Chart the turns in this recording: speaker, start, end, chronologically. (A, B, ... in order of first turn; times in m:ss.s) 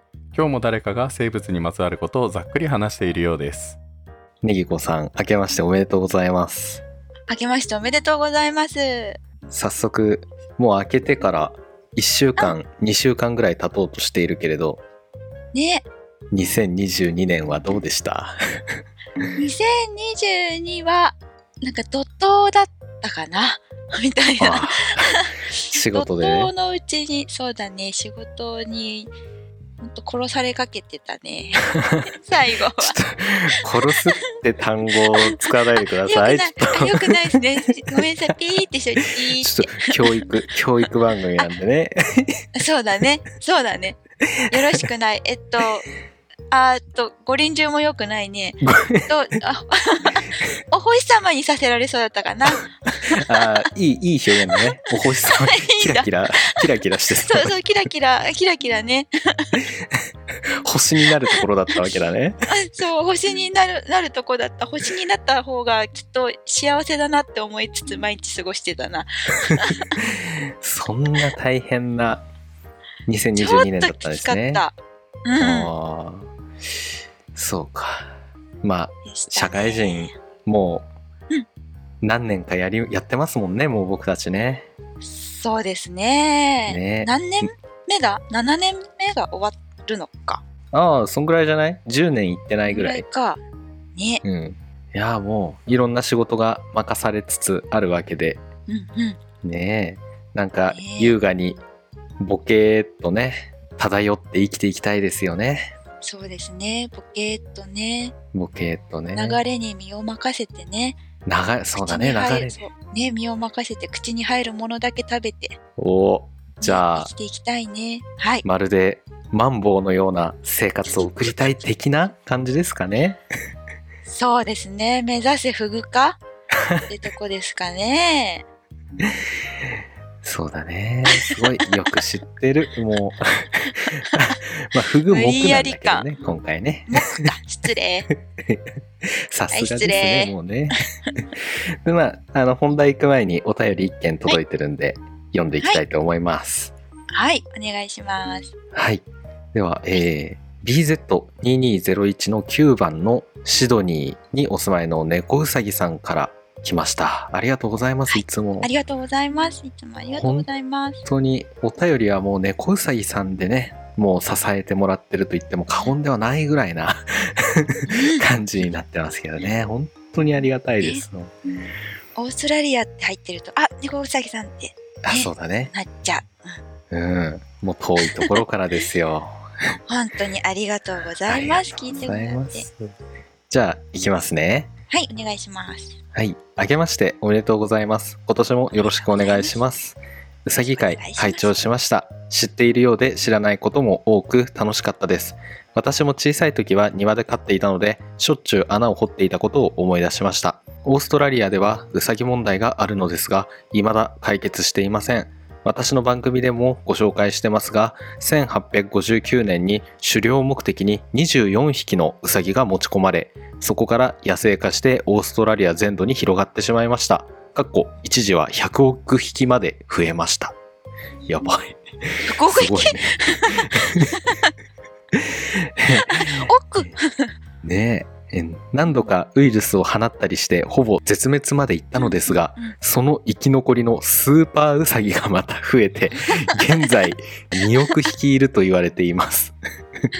0:00.3-0:03.8 A
0:04.4-0:06.8 B
0:07.3-0:09.2 C
0:09.5-0:14.8 B
0:15.5-0:15.9 C
0:16.3-0:18.8 B
0:19.4-0:29.1 C
0:24.4-0:26.5 B
0:29.8-0:33.0 C
0:31.8-0:32.0 B
0:32.8-0:37.4 B
0:33.9-0:34.2 C
0:34.9-0:40.3 C
0:39.3-0:42.4 B
0:42.6-0:44.0 C
0:44.3-0:44.8 B
0:44.5-0:45.9 C
0:46.5-0:53.6 C
0:48.6-0:49.1 B
0:53.1-0:57.6 B
0:54.5-0:56.7 C
0:57.3-0:59.6 C
0:59.6-1:00.0 B
1:00.6-1:02.4 B
1:02.5-1:10.0 C
1:09.4-1:12.2 B
1:13.1-1:14.6 B
1:13.4-1:15.7 C
1:15.4-1:16.3 B
1:17.3-1:20.9 B
1:19.1-1:20.1 C
1:22.0-1:24.7 B
1:25.0-1:30.4 C
1:26.7-1:27.5 B
1:30.7-1:33.0 B
1:32.7-1:33.4 C
1:34.0-1:34.2 C
1:34.2-1:38.4 B
1:38.7-1:39.2 C
1:39.4-1:41.6 B
1:40.7-1:41.2 C
1:42.2-1:45.7 B
1:46.0-1:48.1 C
1:48.3-1:49.4 B
1:49.1-1:51.0 C
1:51.2-1:52.6 B
1:51.8-1:55.6 C
1:55.8-1:57.1 B
1:56.6-1:58.4 C
1:58.4-2:03.2 B
2:00.8-2:01.6 C
2:04.0-2:06.2 C
2:06.5-2:06.9 B
2:06.9-2:08.4 C
2:09.0-2:17.3 B
2:11.1-2:11.9 C
2:14.0-2:14.2 C
2:15.1-2:16.1 C
2:16.9-2:18.1 C
2:18.1-2:20.8 B
2:19.5-2:20.3 C
2:21.8-2:26.7 B
2:27.1-2:28.5 C
2:28.7-2:38.7 B
2:38.1-2:41.0 C
2:40.1-2:40.5 B
2:41.0-2:51.3 B
2:47.9-2:48.2 C
2:52.2-2:56.6 C
2:55.0-2:55.7 B
2:56.9-2:59.8 B
2:58.0-2:58.3 C
2:59.9-3:02.6 C
3:01.3-3:02.9 B
3:03.5-3:04.7 B
3:04.9-3:06.0 C
3:06.1-3:40.6 B
3:08.7-3:09.5 C
3:10.5-3:11.6 C
3:41.3-3:44.2 B
3:42.2-3:44.5 C
3:45.1-3:46.9 B
3:45.9-3:47.3 C
3:47.6-4:00.1 B
3:52.0-3:52.7 C
3:56.5-3:57.0 C
3:57.6-3:58.0 C